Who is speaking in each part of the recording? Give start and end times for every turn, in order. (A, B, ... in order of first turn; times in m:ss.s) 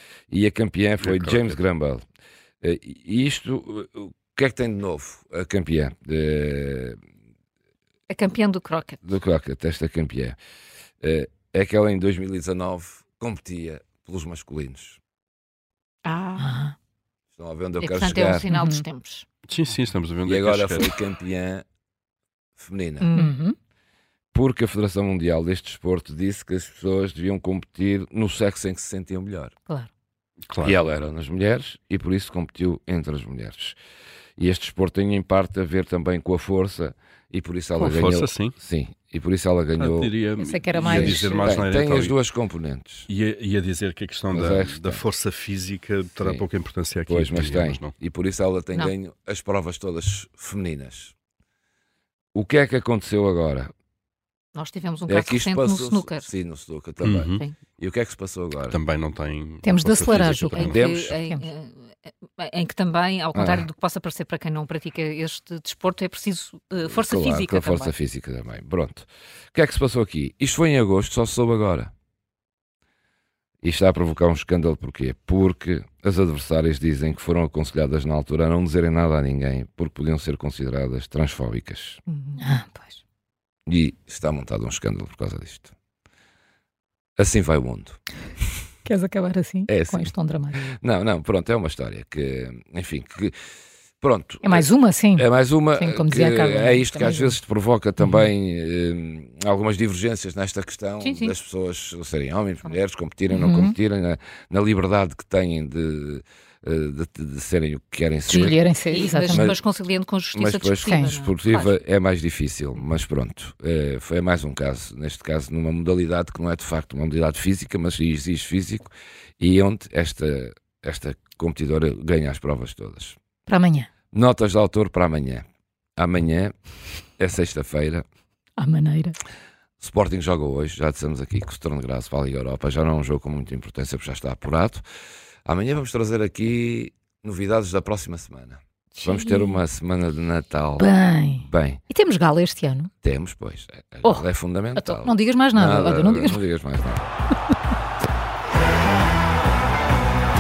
0:00.3-0:02.0 A
0:01.0-0:01.6 B
0:02.6-0:07.0 A
0:08.1-0:09.0 C
0:09.0-0:10.4 A
0:11.0-0:15.0 A
0:16.0-0:16.5 C
0:16.4-0:16.8 D
0:17.4-0:18.5 A
0:17.8-0:19.2 C
0:18.5-0:18.8 D
0:19.5-0:20.9 B
0:20.2-0:21.6 A
0:22.6-0:23.1 A
0:23.0-0:23.3 C
0:23.1-0:23.6 D
0:24.3-0:29.5 A
0:30.5-0:30.8 B
0:30.6-0:33.8 A
0:34.4-0:40.1 A
0:37.8-0:38.6 B
0:39.8-0:42.1 B
0:40.4-0:41.5 D
0:40.8-0:43.1 A
0:43.1-0:47.9 B
0:44.3-0:45.0 A
0:46.2-0:46.4 A
0:47.1-0:51.1 A
0:52.3-0:53.7 A
0:54.6-0:56.3 C
0:55.1-0:58.8 A
0:57.0-0:57.4 B
0:57.2-0:57.6 C
0:58.7-1:00.8 B
0:59.6-1:01.4 D
1:00.1-1:01.2 A
1:00.5-1:07.9 C
1:03.4-1:03.7 A
1:06.9-1:11.9 A
1:13.6-1:22.0 A
1:22.1-1:23.0 D
1:23.7-1:25.7 A
1:27.2-1:28.0 A
1:28.9-1:30.6 D
1:29.7-1:33.4 A
1:34.0-1:48.6 A
1:34.4-1:37.4 D
1:41.0-1:41.3 C
1:43.3-1:43.7 D
1:48.3-1:49.5 D
1:48.3-1:51.8 C
1:49.3-1:49.6 A
1:50.3-2:03.2 A
1:50.8-1:51.1 D
2:03.5-2:03.9 D
2:04.1-2:05.4 A
2:06.0-2:06.5 A
2:07.2-2:08.0 A
2:08.6-2:09.2 D
2:09.8-2:14.8 A
2:15.5-2:20.9 A
2:19.0-2:19.6 D
2:20.8-2:22.9 D
2:21.4-2:21.8 A
2:23.0-2:27.1 A
2:24.8-2:26.4 D